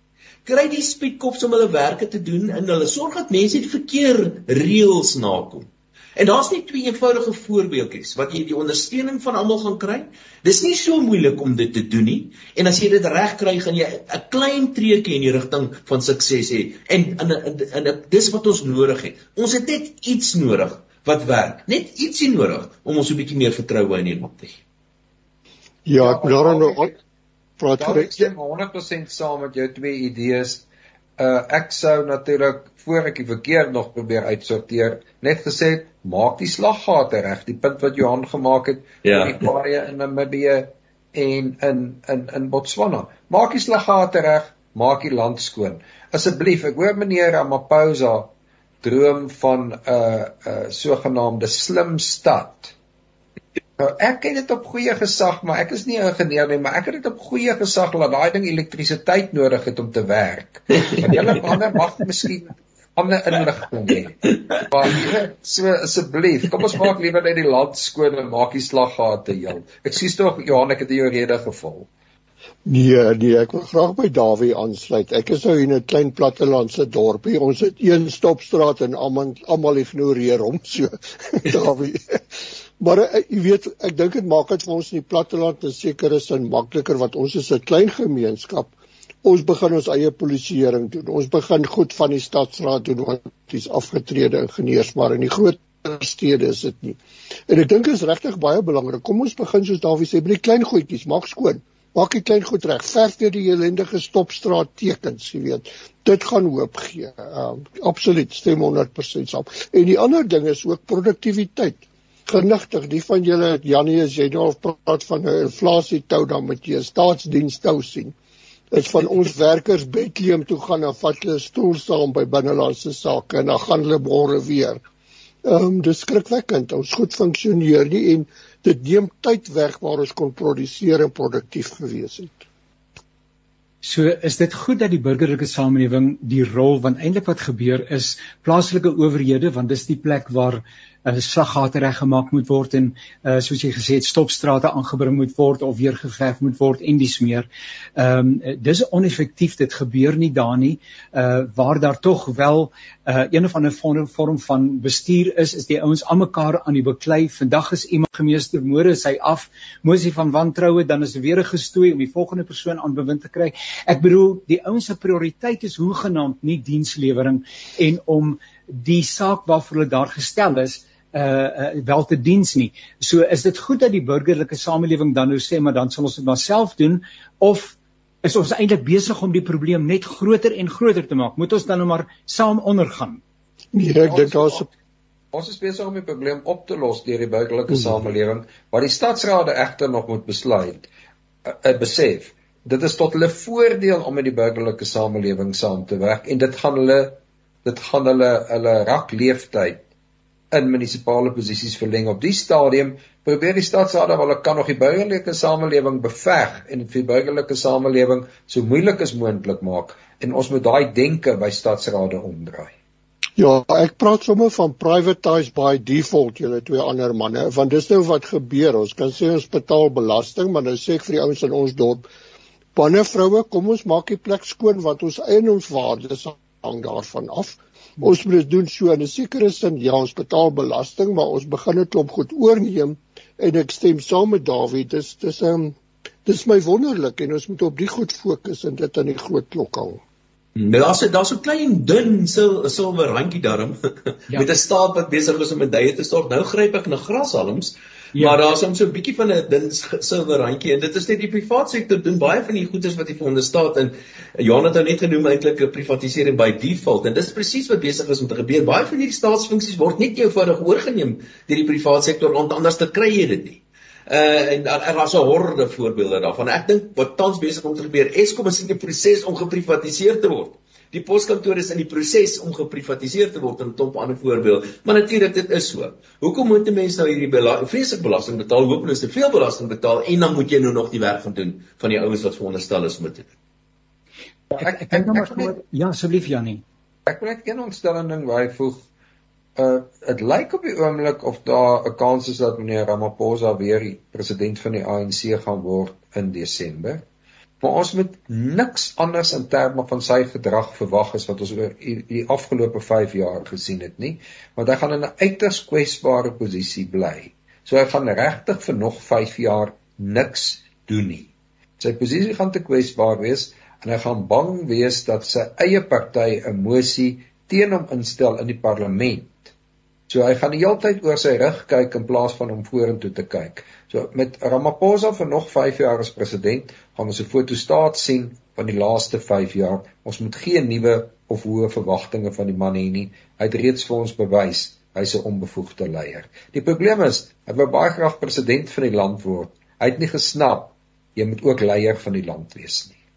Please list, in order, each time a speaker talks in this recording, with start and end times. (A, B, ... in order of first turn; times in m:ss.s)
0:00.4-0:24.6 A
0:25.8-0:26.9 B
0:26.0-0:27.0 C
0:27.6-0:28.3 B
0:27.8-0:30.7 C
0:31.2-0:48.3 C
0:39.0-0:39.4 A
0:48.8-0:52.8 C
0:53.8-1:11.9 C
1:00.9-1:01.4 A
1:12.6-1:22.2 B
1:22.8-1:58.1 B
1:58.7-2:04.8 B
2:05.4-2:12.4 B
2:13.8-3:03.2 D
3:03.7-3:04.7 B
3:04.0-3:04.7 C
3:05.3-3:10.9 C
3:11.5-3:19.8 C
3:20.5-3:32.7 C
3:33.4-3:42.0 B
3:42.8-4:00.0 B
4:00.6-4:43.3 A
4:44.5-4:45.5 C
4:44.6-4:46.6 D
4:47.1-4:48.8 C
4:49.6-4:57.0 C
4:57.6-5:11.3 C
5:11.8-5:19.5 C
5:20.1-5:43.0 C